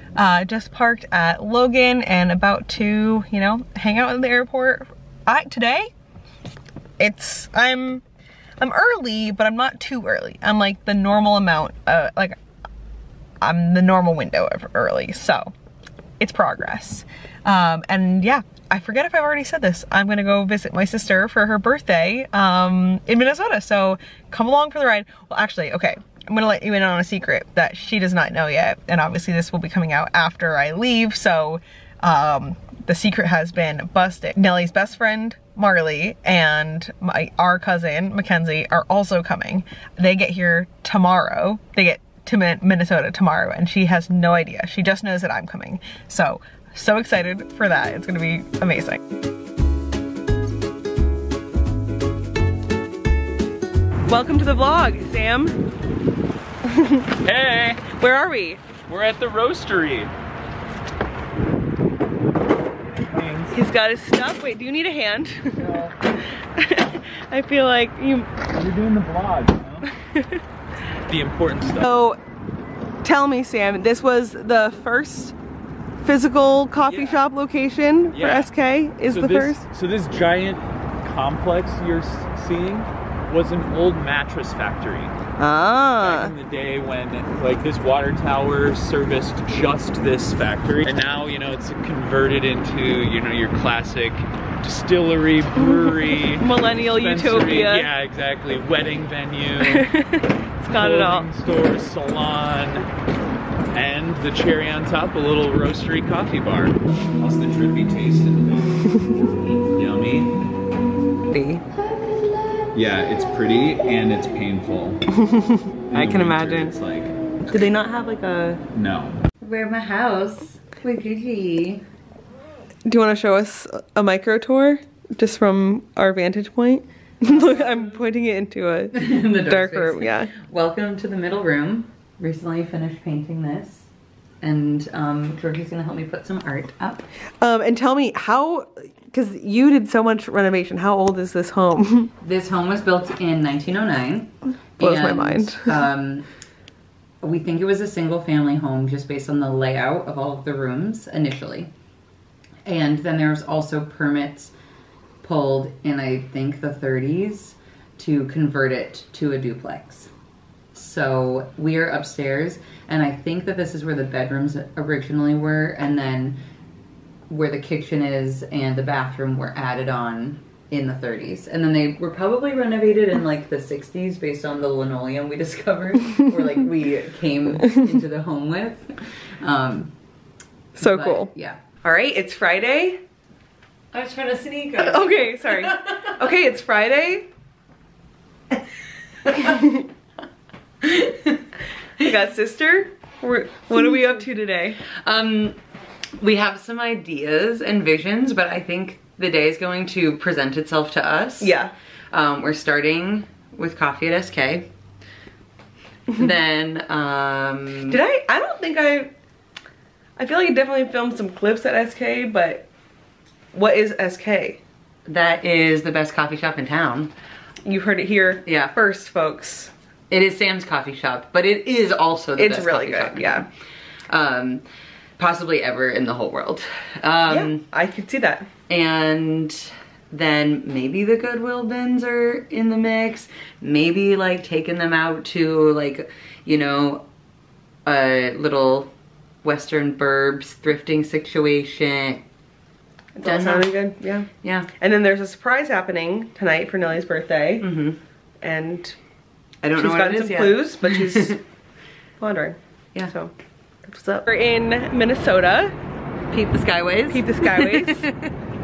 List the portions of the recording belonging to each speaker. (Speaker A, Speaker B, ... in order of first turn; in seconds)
Speaker A: 0.1-5.9, 7.0-8.0, 8.6-12.3, 13.4-15.5, 16.2-49.0, 54.1-55.6, 56.7-57.1, 57.8-58.6, 63.5-65.7, 66.6-68.3, 70.0-70.4, 71.8-72.2, 73.0-75.3, 76.0-79.7, 85.4-86.3, 95.5-97.9, 99.6-101.3, 115.2-116.7, 117.5-118.6, 122.8-130.3, 137.4-142.1, 144.8-145.8, 180.8-183.0, 184.8-187.3, 189.4-189.7, 192.0-194.8, 201.4-201.7, 207.9-209.1, 210.2-212.7, 213.5-214.6, 217.6-219.7, 222.4-223.5, 227.3-228.4, 243.1-244.3, 244.8-247.6, 248.4-248.9, 249.7-251.4, 252.2-253.3, 253.8-255.7, 257.1-258.0
Speaker B: 57.2-57.9, 58.9-60.1, 63.0-63.6, 65.6-65.9, 68.5-69.9, 71.1-71.8, 76.8-77.2, 78.1-78.5, 79.1-85.1, 86.0-99.8, 100.7-102.9, 103.7-110.3, 112.7-115.0, 115.9-117.1, 118.7-119.2
Speaker C: 111.3-111.6, 119.4-121.8, 127.2-128.0, 128.9-133.8, 134.4-137.0, 142.2-146.2, 147.2-151.7, 152.7-154.5, 155.2-160.1, 160.7-166.4, 167.3-179.9, 180.8-181.6, 183.9-186.2, 190.8-191.3, 195.0-195.6, 196.2-201.5, 202.1-204.7, 206.1-208.0, 215.1-217.1, 218.4-218.7, 220.1-223.4, 224.1-224.6, 225.2-227.6, 228.7-237.0, 237.8-238.9, 239.4-242.2, 243.2-243.7, 244.4-244.7, 247.6-248.0, 249.6-251.4, 256.3-258.3